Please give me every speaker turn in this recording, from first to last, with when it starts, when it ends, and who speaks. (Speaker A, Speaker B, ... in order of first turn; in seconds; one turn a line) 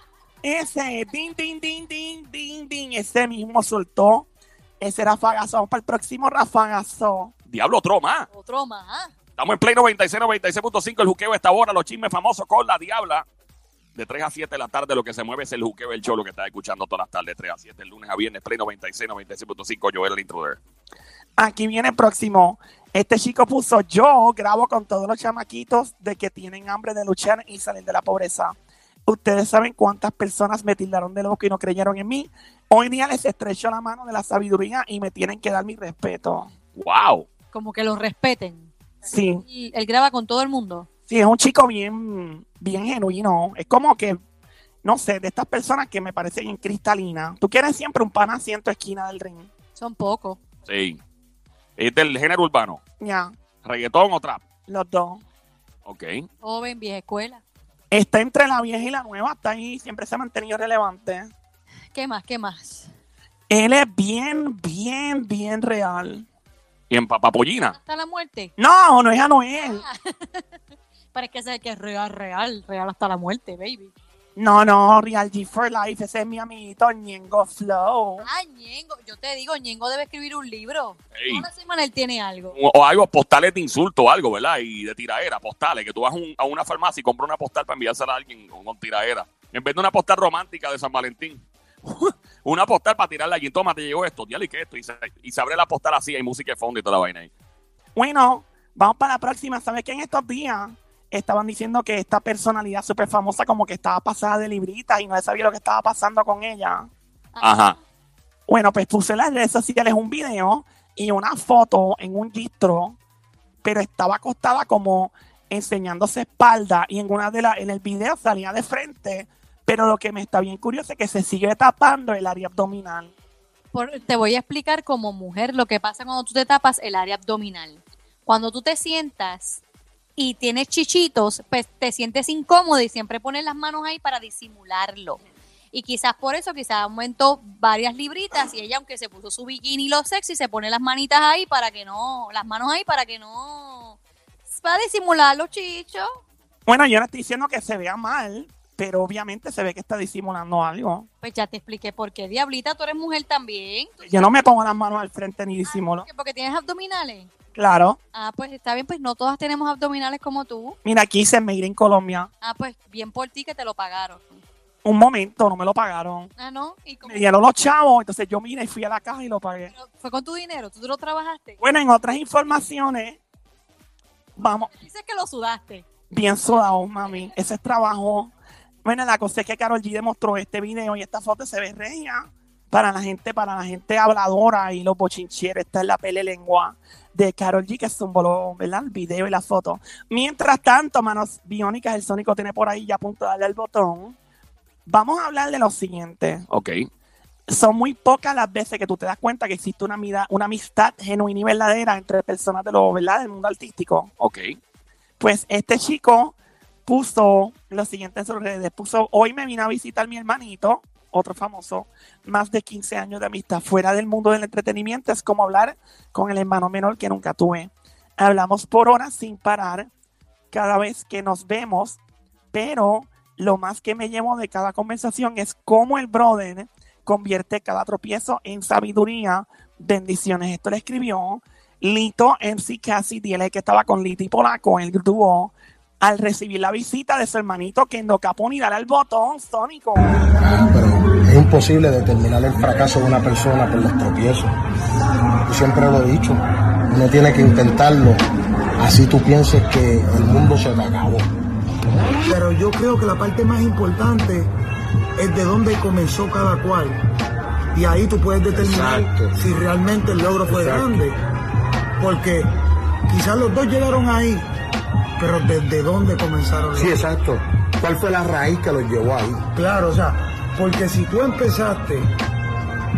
Speaker A: 0.4-4.3
Speaker A: 4.8-7.3
Speaker B: 7.5-8.3
Speaker C: 8.3-9.1
Speaker B: 9.4-13.2
Speaker B: 13.9-20.6
Speaker A: 21.4-28.5
Speaker A: 29.1-36.5
Speaker B: 36.8-37.3
Speaker C: 37.5-38.7
Speaker A: 39.0-39.4
Speaker C: 39.4-40.9
Speaker A: 41.1-44.2
Speaker A: 44.8-49.5
Speaker C: 49.8-50.4
Speaker B: 50.6-51.0
Speaker B: 51.8-52.8
Speaker A: 53.0-53.3
Speaker B: 53.6-54.4
Speaker A: 54.7-55.2
Speaker B: 55.8-56.2
Speaker C: 56.4-57.4
Speaker A: 57.9-61.3
Speaker C: 61.9-62.9
Speaker A: 63.5-66.2
Speaker B: 66.9-67.8
Speaker C: 67.7-68.5
Speaker A: 68.6-69.8
Speaker C: 69.6-70.5
Speaker C: 71.1-73.9
Speaker A: 74.3-78.2
Speaker C: 78.2-82.5
Speaker B: 81.1-81.5
Speaker B: 82.5-97.3
Speaker A: 98.0-106.9
Speaker C: 107.3-107.7
Speaker B: 107.4-107.7
Speaker A: 108.5-113.0
Speaker A: 113.6-123.1
Speaker C: 123.7-129.6
Speaker C: 130.2-146.1
Speaker A: 146.7-151.1
Speaker C: 151.2-154.3
Speaker A: 154.0-156.1
Speaker C: 155.7-157.3
Speaker A: 157.5-158.0
Speaker C: 158.1-160.8
Speaker A: 160.8-162.3
Speaker C: 162.4-164.4
Speaker A: 164.8-166.3
Speaker C: 166.4-167.2
Speaker A: 167.0-169.7
Speaker C: 169.7-171.6
Speaker A: 171.6-173.2
Speaker A: 174.4-174.7
Speaker C: 174.7-175.8
Speaker A: 176.1-178.3
Speaker A: 178.8-194.2
Speaker A: 194.8-196.4
Speaker B: 196.5-196.8
Speaker A: 197.5-204.1
Speaker B: 204.2-204.5
Speaker A: 205.2-206.3
Speaker A: 206.9-219.9
Speaker A: 220.5-222.0
Speaker A: 222.5-240.1
Speaker D: 240.4-244.5
Speaker D: 245.4-248.2
Speaker D: 248.8-251.3
Speaker E: 252.2-254.5
Speaker E: 255.2-257.0
Speaker E: 257.7-261.2
Speaker D: 258.5-259.4
Speaker D: 260.4-261.1
Speaker E: 262.0-262.5
Speaker E: 263.1-264.4
Speaker E: 265.2-267.0
Speaker D: 266.8-269.4
Speaker E: 269.5-272.1